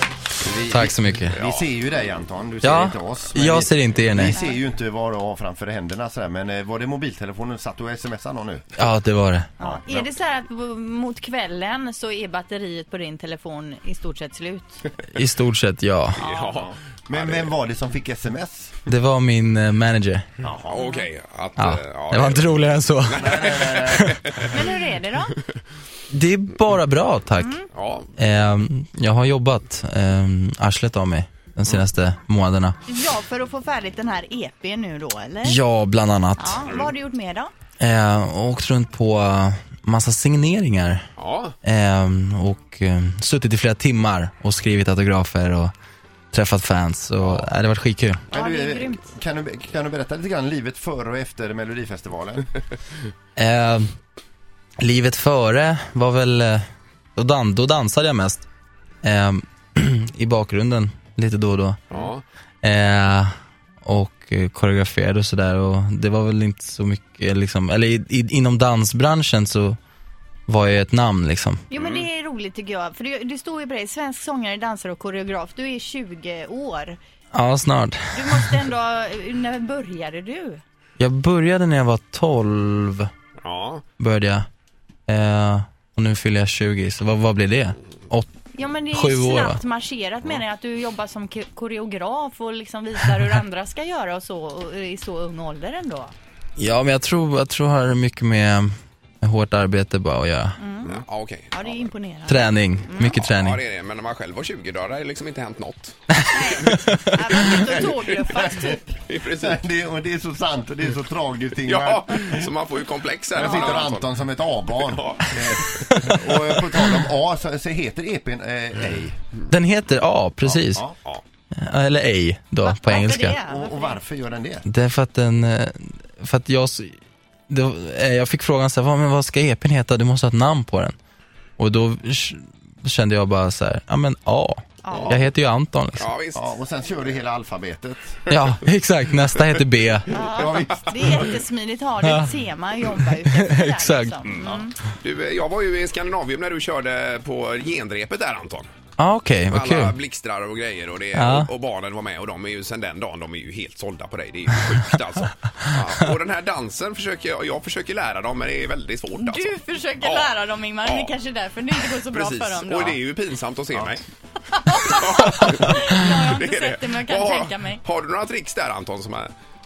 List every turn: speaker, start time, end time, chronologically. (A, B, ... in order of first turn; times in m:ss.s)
0:00.4-0:08.7 A
0:00.7-0:01.4 B
0:01.3-0:01.7 C
0:02.6-0:04.4 B
0:08.8-0:09.5 B
0:09.6-0:14.9 D
0:09.6-0:10.0 A
0:15.1-0:16.2 B
0:16.2-0:17.5 C
0:16.2-0:16.6 D
0:17.1-0:18.7 A
0:18.9-0:20.3 B
0:20.5-0:24.6 C
0:20.7-0:21.1 D
0:21.6-0:24.3 B
0:23.1-0:24.1 A
0:24.5-0:25.3 D
0:26.1-0:27.5 B
0:27.4-0:27.7 D
0:27.7-0:28.1 C
0:28.2-0:32.8 B
0:32.9-0:35.6 D
0:35.4-0:36.6 B
0:36.4-0:37.5 D
0:36.6-0:36.9 C
0:37.8-0:41.1 B
0:41.2-0:41.6 C
0:41.6-0:45.7 B
0:46.3-0:48.2 B
0:48.3-0:52.7 A
0:48.3-0:49.1 D
0:53.4-0:53.9 B
0:54.8-0:56.6 B
0:57.2-0:58.4 B
0:59.0-1:01.8 B
1:01.9-1:02.2 C
1:02.6-1:03.3 B
1:03.8-1:09.8 B
1:10.5-1:11.6 B
1:11.7-1:17.0 D
1:11.7-1:12.1 C
1:17.3-1:18.6 B
1:18.1-1:20.6 D
1:21.0-1:23.1 B
1:23.4-1:23.8 C
1:24.0-1:24.4 B
1:25.1-1:28.3 B
1:28.5-1:36.1 D
1:28.9-1:29.6 B
1:36.6-1:38.7 B
1:39.2-1:40.6 B
1:40.6-1:40.9 D
1:40.8-1:41.9 C
1:41.5-1:43.2 D
1:42.3-1:43.6 B
1:43.1-1:46.6 C
1:46.3-1:48.8 D
1:47.3-1:47.6 B
1:47.5-1:49.6 C
1:48.3-1:52.5 A
1:51.6-1:54.1 C
1:53.3-1:59.2 A
1:53.4-1:53.8 D
1:54.8-1:56.2 C
1:59.5-2:00.8 B
2:00.4-2:00.9 A
2:01.5-2:03.4 B
2:02.6-2:04.0 D
2:03.4-2:04.6 A
2:04.6-2:06.9 B
2:07.5-2:10.9 B
2:11.6-2:16.1 B
2:14.8-2:15.2 D
2:14.9-2:15.2 C
2:16.0-2:16.5 C
2:16.3-2:18.2 A
2:18.3-2:20.2 B
2:20.1-2:24.7 D
2:20.3-2:21.3 A
2:22.0-2:22.3 B
2:22.9-2:24.2 B
2:25.0-2:28.7 C
2:29.0-2:30.0 B
2:29.5-2:39.5 C
2:31.1-2:31.5 B
2:39.2-2:43.0 D
2:40.0-2:40.3 C
2:40.8-2:41.1 C
2:42.0-2:44.0 C
2:44.5-2:47.8 D
2:44.7-2:49.3 C